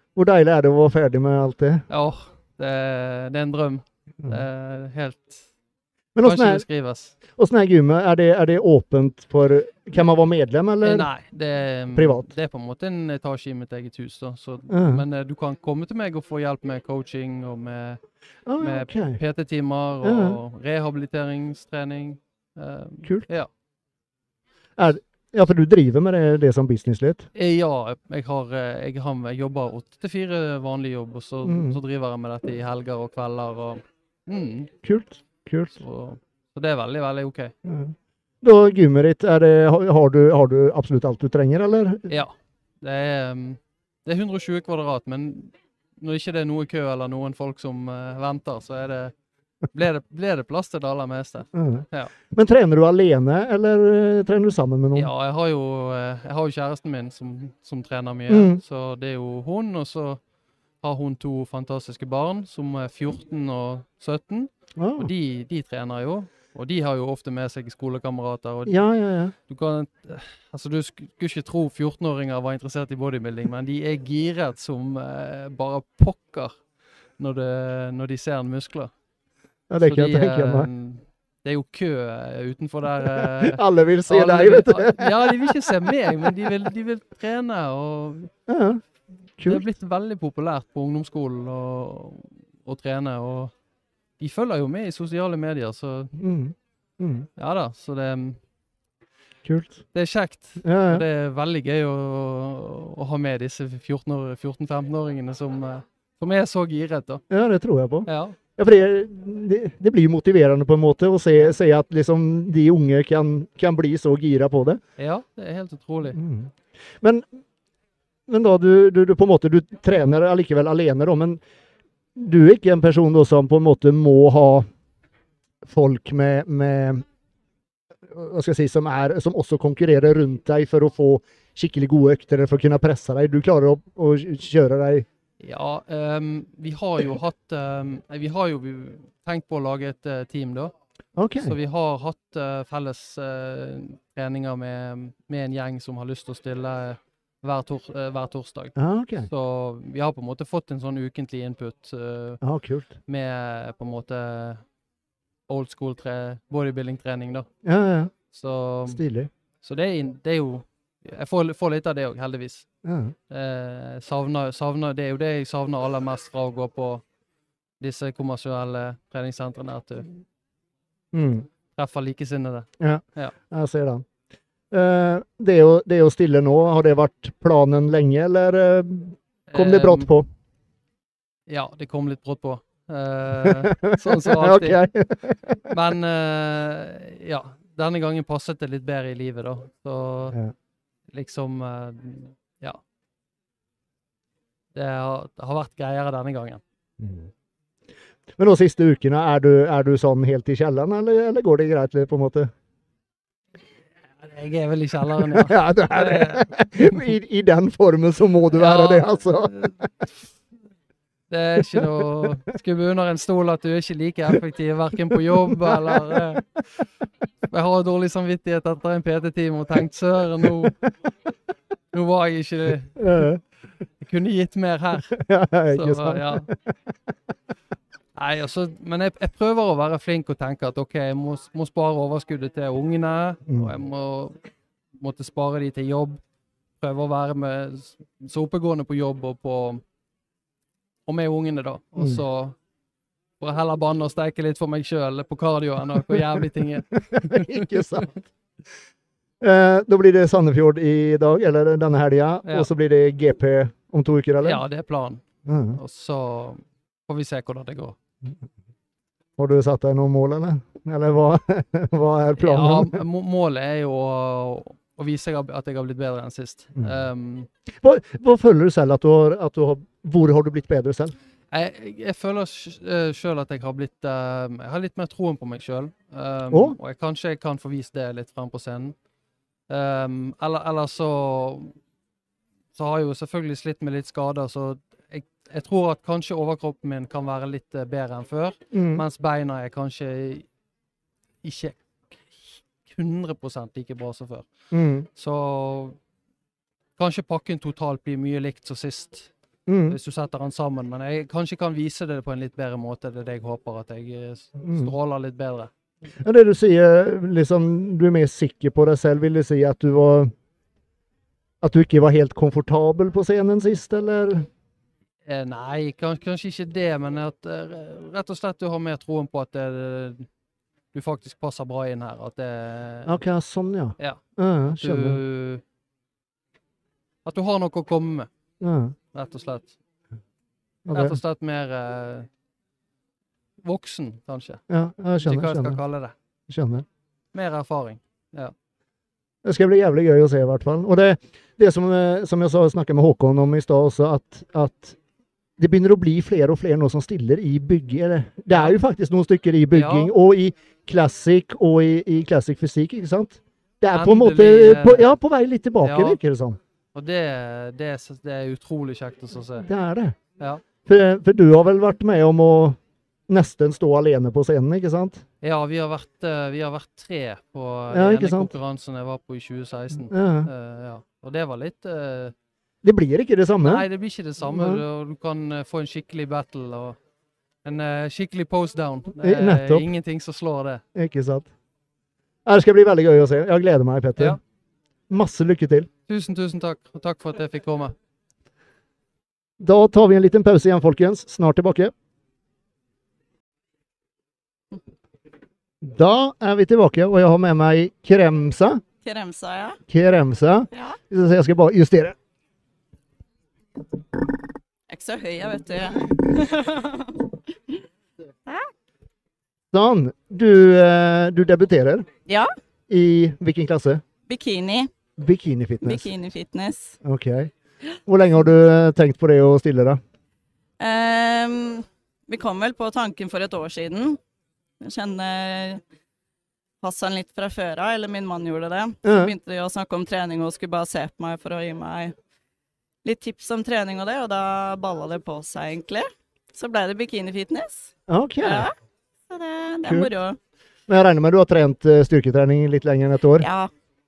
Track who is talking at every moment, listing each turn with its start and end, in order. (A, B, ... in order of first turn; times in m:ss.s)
0:00.2-0:01.8 A
0:01.9-0:05.5 B
0:06.2-0:06.6 A
0:06.2-0:07.2 B
0:07.3-0:11.1 A
0:10.8-0:18.0 B
0:12.0-0:12.3 A
0:14.7-0:15.0 A
0:18.5-0:19.2 A
0:18.6-0:23.5 B
0:20.0-0:20.4 A
0:24.8-0:27.3 A
0:27.4-0:34.7 B
0:31.4-0:31.8 A
0:34.8-0:35.8 A
0:35.8-0:37.5 B
0:37.6-0:42.1 A
0:42.1-0:49.1 B
0:49.7-0:52.1 B
0:51.5-0:55.1 A
0:55.0-1:00.2 B
0:58.3-0:58.6 A
1:00.8-1:08.8 B
1:04.8-1:05.1 A
1:08.7-1:09.3 A
1:09.5-1:16.5 B
1:17.2-1:18.9 B
1:19.7-1:20.7 A
1:19.8-1:28.3 B
1:23.0-1:26.3 A
1:28.5-1:28.8 A
1:29.4-1:29.6 A
1:29.4-1:33.5 B
1:34.2-1:36.1 B
1:36.2-1:37.3 A
1:37.4-1:38.4 B
1:39.4-1:39.8 A
1:39.9-1:47.2 B
1:40.6-1:41.0 A
1:47.3-1:54.8 A
1:48.1-1:48.4 B
1:55.0-1:56.2 B
1:56.1-1:57.3 A
1:58.3-2:01.4 A
2:02.2-2:04.7 A
2:05.6-2:07.0 A
2:08.1-2:15.1 A
2:15.4-2:20.7 B
2:21.2-2:21.6 A
2:21.4-2:32.4 B
2:28.8-2:29.3 A
2:32.4-2:32.9 A
2:33.1-2:34.6 B
2:35.5-2:37.5 B
2:37.6-2:38.1 A
2:38.3-2:39.0 B
2:38.9-2:39.3 A
2:39.6-2:42.7 B
2:42.8-2:43.1 A
2:43.3-2:47.0 B
2:47.8-2:50.1 B
2:51.1-2:51.5 A
2:51.8-2:53.3 B
2:52.8-2:54.0 A
2:54.7-3:00.3 A
2:59.5-3:00.1 B
3:01.5-3:04.8 B
3:03.4-3:05.7 A
3:05.7-3:10.4 B
3:11.1-3:12.8 B
3:14.7-3:16.6 B
3:17.0-3:17.3 A
3:18.4-3:22.5 A
3:24.2-3:27.1 B
3:25.3-3:29.6 A
3:28.5-3:29.8 B
3:31.3-3:36.5 B
3:31.6-3:32.3 A
3:35.1-3:36.4 A
3:37.5-3:40.8 B
3:40.4-3:40.7 A
3:41.9-3:43.3 B
3:43.0-3:43.4 A
3:44.0-3:45.2 B
3:45.1-3:46.6 A
3:45.7-3:46.5 B
3:48.2-3:54.4 B
3:55.0-3:56.2 B
3:56.8-3:59.8 B
4:01.1-4:02.6 B
4:03.4-4:08.1 B
4:07.1-4:08.2 A
4:09.4-4:14.6 A
4:12.4-4:12.7 B
4:14.4-4:15.2 B
4:15.5-4:15.8 A
4:15.7-4:18.0 B
4:19.4-4:23.0 A
4:22.4-4:27.5 B
4:27.8-4:31.1 A
4:31.5-4:39.0 B
4:36.5-4:36.8 A
4:39.7-4:41.7 B
4:42.8-4:50.5 B
4:48.7-4:49.0 A
4:51.4-4:54.5 B
4:54.7-4:55.1 A
4:55.2-4:56.0 B
4:57.0-4:59.3 B
4:59.7-5:00.0 A
4:59.9-5:05.7 B
5:04.6-5:04.9 A
5:06.2-5:10.3 A
5:11.6-5:14.5 A
5:15.3-5:20.3 B
5:20.9-5:23.2 B
5:23.1-5:25.2 A
5:24.7-5:25.6 B
5:27.2-5:28.3 B
5:28.6-5:29.0 A
5:29.1-5:29.8 B
5:30.8-5:31.2 A
5:30.9-5:32.3 B
5:33.6-5:34.6 B
5:34.7-5:35.8 A
5:35.2-5:36.1 B
5:36.5-5:36.8 A
5:37.3-5:38.5 B
5:39.4-5:45.0 A
5:45.6-5:56.6 A
5:48.5-5:48.8 B
5:49.7-5:50.1 B
5:53.9-5:55.2 B
5:55.8-5:56.2 B
5:56.9-5:59.7 B
5:59.6-6:00.2 A
6:00.8-6:05.2 A
6:05.4-6:12.3 B
6:07.9-6:08.5 A
6:10.1-6:10.5 A
6:12.8-6:13.9 A
6:13.6-6:17.0 B
6:14.4-6:14.8 A
6:17.6-6:20.8 B
6:19.2-6:19.9 A
6:21.0-6:21.5 A
6:22.4-6:24.4 A
6:25.1-6:25.9 A
6:26.1-6:28.0 B
6:29.6-6:31.9 A
6:35.8-6:38.8 A
6:39.0-6:39.8 C
6:39.9-6:42.2 A
6:44.9-6:47.8 C
6:49.7-6:52.1 A
6:52.9-6:54.0 A
6:54.3-6:54.9 C
6:55.2-6:56.1 A
6:55.8-6:57.0 C
6:57.0-6:57.5 A
6:58.1-7:00.0 A
7:00.8-7:04.2 C
7:04.8-7:05.8 C
7:06.8-7:12.1 C
7:09.0-7:09.3 A
7:13.0-7:17.9 C
7:18.1-7:18.7 A
7:18.4-7:18.7 C
7:19.3-7:20.4 C
7:19.8-7:20.1 A
7:20.9-7:23.5 A
7:23.4-7:23.7 C